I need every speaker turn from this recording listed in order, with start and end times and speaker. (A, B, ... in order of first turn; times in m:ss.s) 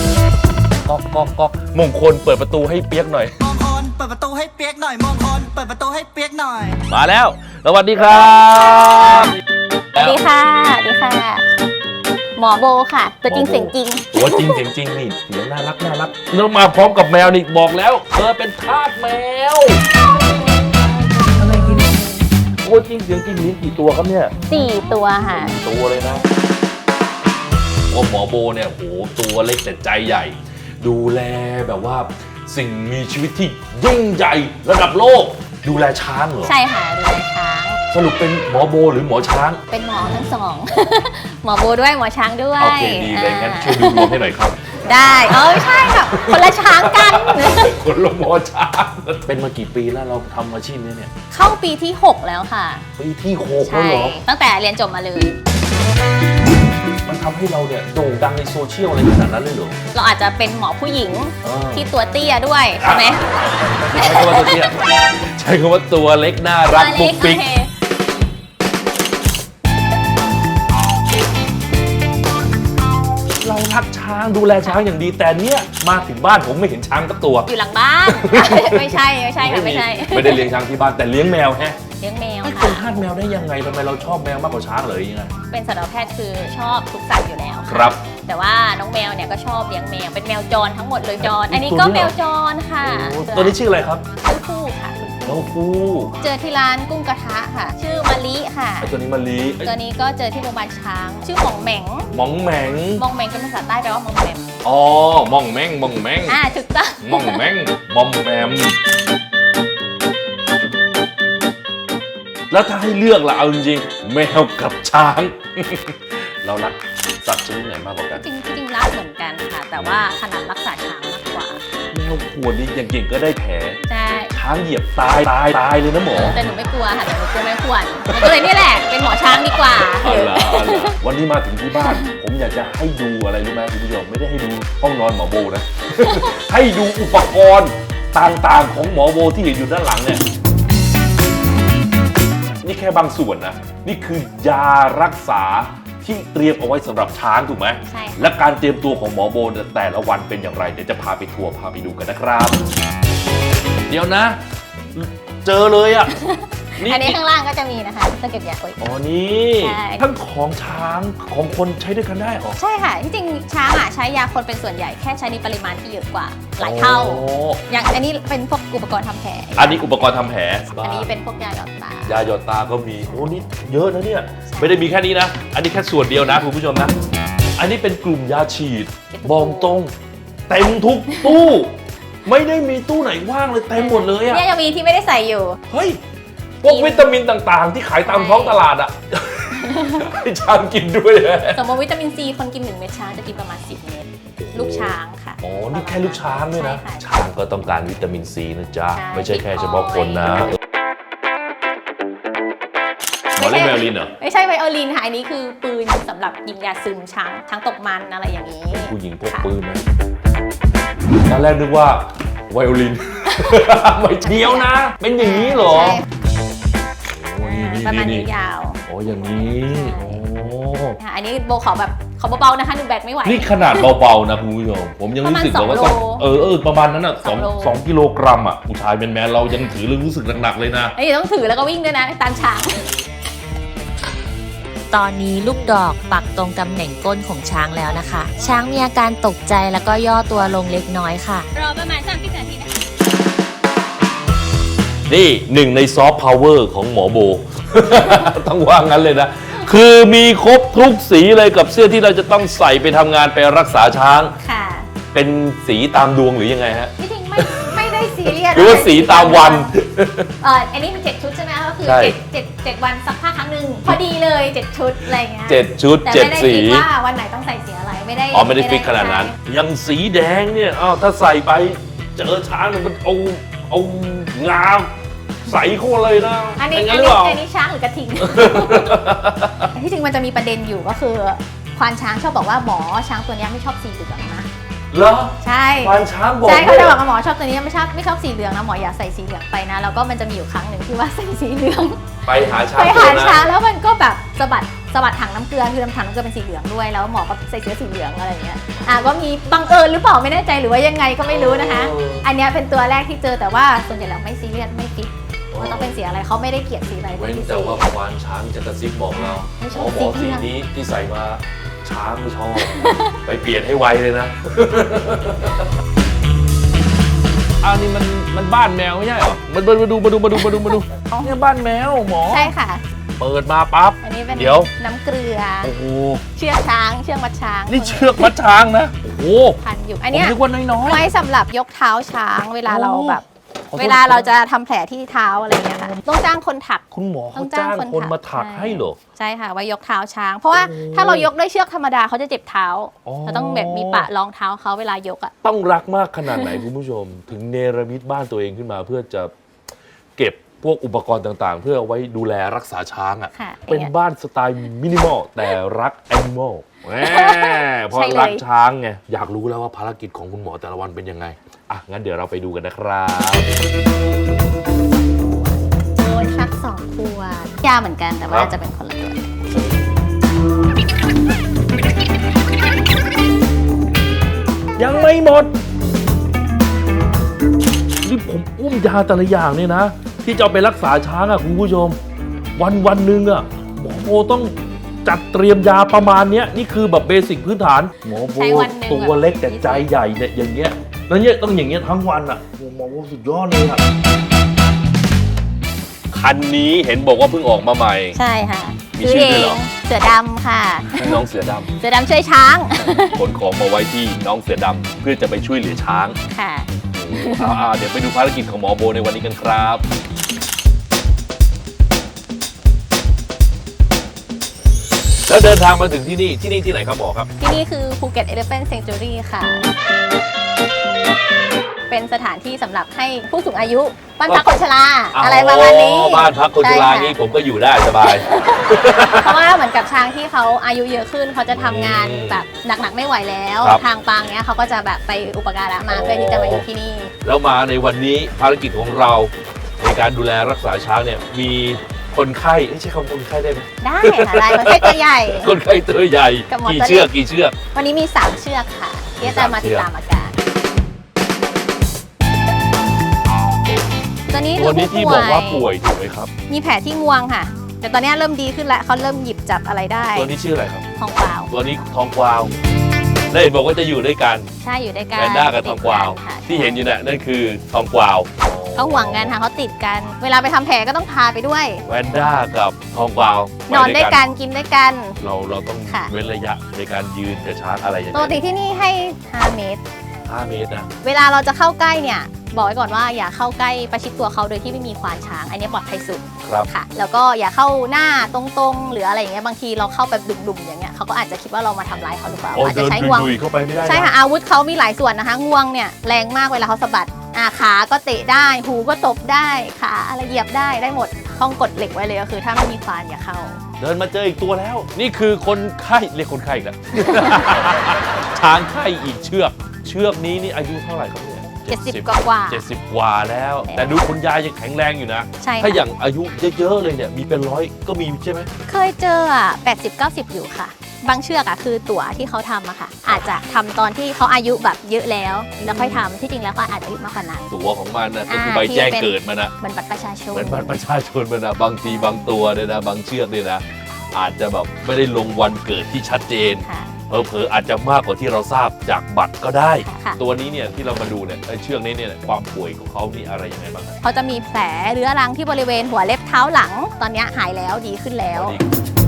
0:00.8-0:03.3 A
0:03.4-0:06.8 B
0:06.9-0:09.4 A
0:08.3-0:09.3 C
0:10.0-0:11.4 C
0:12.4-0:14.6 C
0:13.3-0:19.8 A
0:21.2-0:24.5 A
0:24.5-0:25.5 C
0:25.4-0:26.2 A
0:27.9-0:36.5 A
0:36.4-0:37.8 C
0:37.9-0:39.6 A
0:39.7-0:44.2 C
0:42.6-0:44.8 A
0:44.8-0:47.7 C
0:45.3-0:51.1 A
0:51.3-0:52.9 C
0:53.0-0:54.2 A
0:53.6-0:55.3 C
0:57.0-0:59.8 A
0:59.9-1:03.2 C
1:01.4-1:01.9 A
1:02.8-1:07.4 A
1:03.9-1:04.6 C
1:06.7-1:07.7 C
1:13.4-1:17.5 A
1:17.5-1:20.5 C
1:18.1-1:21.8 A
1:22.0-1:22.8 C
1:22.4-1:25.3 A
1:25.5-1:33.6 C
1:27.7-1:28.0 A
1:31.2-1:32.1 A
1:32.8-1:34.0 A
1:34.2-1:35.4 C
1:35.2-1:36.2 A
1:36.2-1:38.9 C
1:38.8-1:39.7 A
1:39.6-1:42.1 C
1:42.1-1:43.0 A
1:43.0-1:44.6 C
1:44.6-1:46.4 A
1:46.3-1:47.4 C
1:47.0-1:48.8 A
1:52.5-1:58.2 A
1:58.1-2:01.6 C
1:59.8-2:00.0 A
2:01.9-2:06.4 A
2:03.9-2:04.3 C
2:06.1-2:11.0 C
2:08.1-2:20.2 A
2:11.8-2:12.1 C
2:16.0-2:16.3 C
2:22.6-2:32.6 A
2:27.8-2:28.3 C
2:33.9-2:34.4 A
2:34.9-2:36.1 A
2:36.1-2:38.8 C
2:36.8-2:37.2 A
2:38.8-2:42.6 A
2:39.6-2:40.1 C
2:42.6-2:49.8 C
2:46.6-2:47.6 A
2:49.6-2:51.1 A
2:50.8-2:52.2 C
2:52.0-2:56.9 A
2:53.1-2:53.4 C
2:54.5-2:54.8 C
2:57.6-2:59.9 A
2:59.1-2:59.7 C
3:00.5-3:04.4 A
3:01.1-3:01.4 C
3:03.8-3:05.6 C
3:05.7-3:06.0 A
3:06.6-3:11.6 A
3:06.6-3:07.1 C
3:08.0-3:08.6 C
3:09.6-3:10.1 C
3:11.5-3:17.0 C
3:14.4-3:20.6 A
3:18.9-3:20.4 C
3:23.4-3:24.1 A
3:23.4-3:29.5 C
3:28.7-3:29.8 A
3:31.2-3:36.0 A
3:34.2-3:36.1 C
3:37.0-3:38.3 A
3:37.4-3:38.8 C
3:38.9-3:41.0 A
3:39.7-3:40.2 C
3:41.0-3:43.9 C
3:43.2-3:50.9 A
3:45.2-3:46.2 C
3:47.2-3:47.8 C
3:51.0-3:52.9 C
3:54.9-4:01.5 D
4:01.5-4:02.7 C
4:05.1-4:14.4 A
4:14.4-4:14.9 C
4:15.1-4:20.3 A
4:17.0-4:19.7 C
4:20.4-4:29.3 C
4:21.8-4:22.1 A
4:25.5-4:26.9 A
4:28.3-4:34.9 A
4:35.4-4:37.4 A
4:36.6-4:39.0 C
4:38.2-4:39.7 A
4:39.7-4:44.5 C
4:44.9-4:47.0 A
4:45.4-4:52.0 C
4:52.2-4:53.5 A
4:52.5-5:07.8 C
5:01.3-5:02.2 A
5:05.5-5:06.0 A
5:07.2-5:15.7 A
5:09.1-5:10.5 C
5:12.6-5:13.2 C
5:17.6-5:22.5 A
5:20.3-5:21.3 C
5:22.3-5:22.8 C
5:23.2-5:24.7 A
5:24.0-5:25.7 C
5:25.6-5:26.2 A
5:26.3-5:28.3 C
5:27.7-5:29.6 A
5:29.6-5:33.2 C
5:30.1-5:31.0 A
5:32.6-5:34.3 A
5:33.8-5:36.8 C
5:36.9-5:39.0 A
5:37.3-5:45.3 C
5:40.5-5:41.3 A
5:43.0-5:44.0 A
5:45.4-5:49.3 A
5:46.3-5:46.6 C
5:50.2-6:03.5 A
5:53.3-5:53.9 C
5:57.0-5:58.4 C
6:06.0-6:09.3 C
6:14.8-6:15.5 A
6:18.0-6:22.0 A
6:22.6-6:33.8 A
6:28.0-6:29.9 C
6:36.1-6:38.2 A
6:38.1-6:41.2 C
6:38.9-6:39.6 A
6:40.9-6:41.7 A
6:41.8-6:43.2 C
6:43.1-6:46.2 A
6:46.3-6:47.6 C
6:46.8-6:49.8 A
6:55.2-6:57.3 A
6:57.4-6:59.7 C
7:01.9-7:07.2 C
7:05.1-7:09.4 A
7:08.0-7:17.1 C
7:11.5-7:12.4 A
7:15.9-7:16.6 A
7:17.2-7:27.6 A
7:23.8-7:25.5 C
7:26.5-7:27.1 C
7:27.7-7:30.3 C
7:29.2-7:29.9 A
7:34.3-7:35.6 C
7:34.6-7:36.3 A
7:36.5-7:40.3 C
7:40.1-7:40.8 A
7:41.0-7:41.5 C
7:41.5-7:42.5 A
7:43.3-7:44.5 A
7:44.6-7:46.8 C
7:45.2-7:49.3 A
7:48.8-7:51.8 C
7:51.8-7:54.2 A
7:53.7-7:55.2 C
7:55.2-7:58.4 A
7:58.1-7:59.8 C
8:00.3-8:00.9 A
8:01.0-8:23.6 C
8:06.4-8:06.7 A
8:12.5-8:14.1 A
8:23.8-8:38.5 A
8:27.1-8:27.4 C
8:31.7-8:32.6 C
8:33.7-8:34.1 C
8:35.4-8:35.8 C
8:38.7-8:47.5 C
8:45.6-8:46.0 A
8:47.5-8:49.5 A
8:48.3-8:50.7 C
8:50.3-9:03.9 A
8:56.6-8:56.9 C
8:59.8-9:00.2 C
9:04.0-9:08.6 C
9:08.3-9:08.7 A